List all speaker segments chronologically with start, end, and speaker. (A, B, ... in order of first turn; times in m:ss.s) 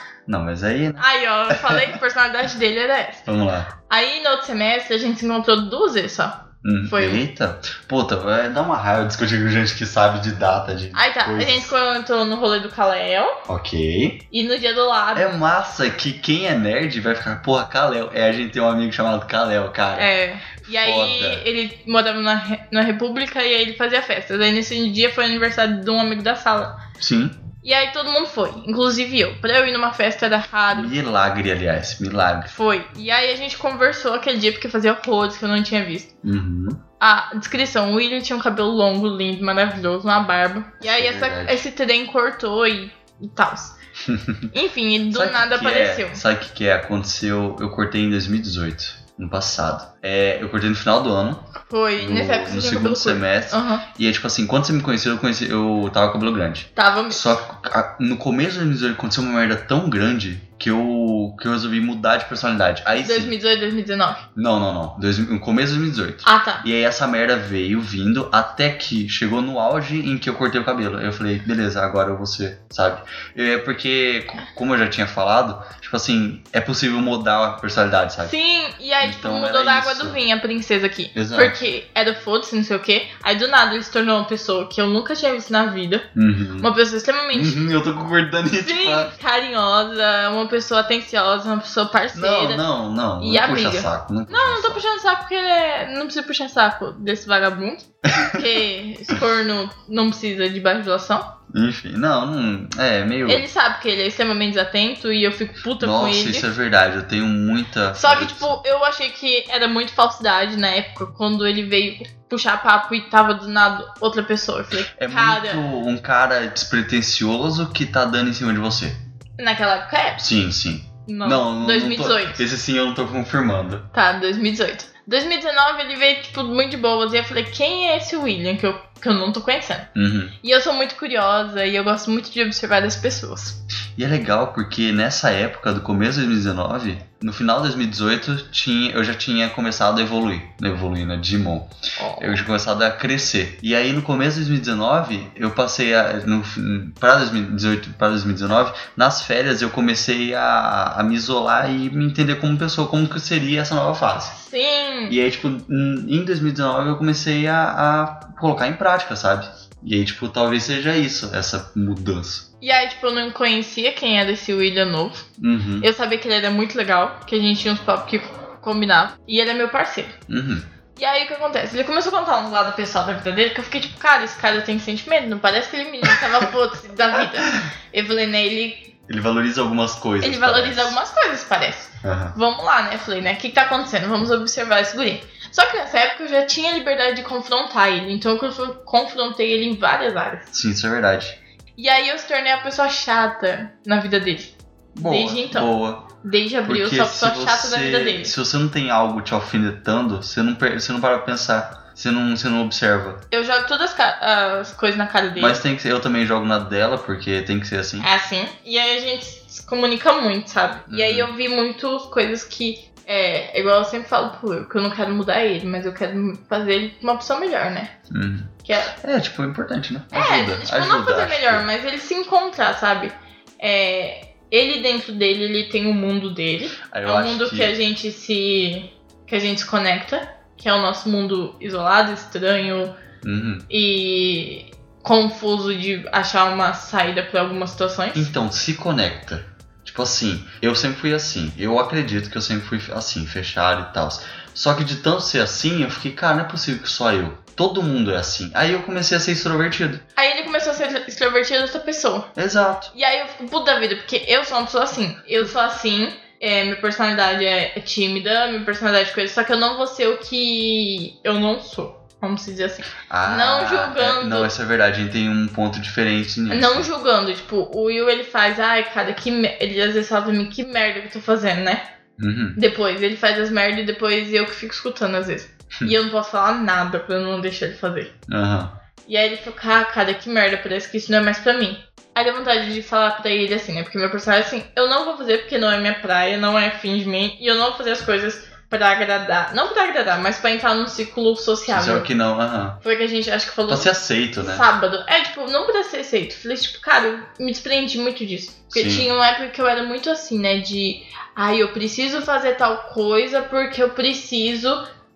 0:00.3-0:02.0 A
0:01.0-0:03.3 B
0:03.3-0:03.7 A
0:03.9-0:07.2 B
0:06.6-0:11.7 A
0:10.9-0:13.4 B
0:13.5-0:14.2 A
0:14.3-0:15.3 B
0:15.2-0:20.1 A
0:20.0-0:26.8 B
0:20.7-0:21.4 A
0:27.0-0:27.4 A
0:27.6-0:30.9 B
0:30.7-0:32.5 A
0:32.5-0:36.1 B
0:36.2-0:36.8 A
0:37.0-0:43.7 B
0:40.8-0:41.6 A
0:44.0-0:44.5 A
0:44.5-0:46.2 B
0:45.1-1:03.3 A
0:51.6-0:53.9 B
0:56.8-0:57.4 B
1:03.0-1:04.2 B
1:04.4-1:18.3 A
1:06.2-1:06.6 B
1:18.2-1:26.1 B
1:19.0-1:20.2 A
1:21.2-1:21.6 A
1:26.2-1:26.7 A
1:26.6-1:27.7 B
1:27.3-1:29.1 A
1:28.6-1:32.6 B
1:32.1-1:34.8 A
1:33.2-1:41.3 B
1:38.1-1:38.5 A
1:41.5-1:43.5 A
1:43.2-1:46.5 B
1:45.8-1:48.6 A
1:48.0-1:55.6 B
1:55.0-1:59.0 A
1:59.4-2:00.2 B
2:00.2-2:03.9 A
2:01.1-2:02.4 B
2:03.9-2:09.9 B
2:10.0-2:10.3 A
2:10.4-2:13.6 B
2:14.0-2:34.4 A
2:22.0-2:22.4 B
2:34.3-2:35.2 B
2:35.1-2:42.5 A
2:42.6-2:45.3 B
2:45.4-2:45.9 A
2:45.8-2:50.2 B
2:50.3-2:50.7 A
2:51.0-2:58.9 B
2:56.1-2:56.4 A
2:57.1-2:57.7 A
2:59.1-3:01.0 A
3:00.2-3:10.5 B
3:02.0-3:02.4 A
3:10.5-3:11.4 A
3:11.8-3:15.7 B
3:14.9-3:16.1 A
3:16.2-3:18.3 B
3:16.7-3:23.2 A
3:23.3-3:25.6 B
3:25.4-3:28.1 A
3:28.0-3:37.9 B
3:30.9-3:31.3 A
3:38.1-3:41.7 A
3:38.7-3:38.9 B
3:40.1-3:53.0 B
3:46.9-3:47.8 A
3:53.2-3:53.7 A
3:53.7-3:58.3 B
3:58.1-4:10.0 A
4:10.2-4:12.3 B
4:12.4-4:12.9 A
4:12.9-4:24.5 B
4:23.1-4:26.9 A
4:26.5-4:31.8 B
4:32.2-4:32.6 A
4:32.6-4:38.1 B
4:38.3-4:38.7 A
4:39.1-4:52.1 B
4:51.7-4:52.8 A
4:52.8-5:04.8 B
4:53.7-4:54.7 A
4:58.7-4:59.1 A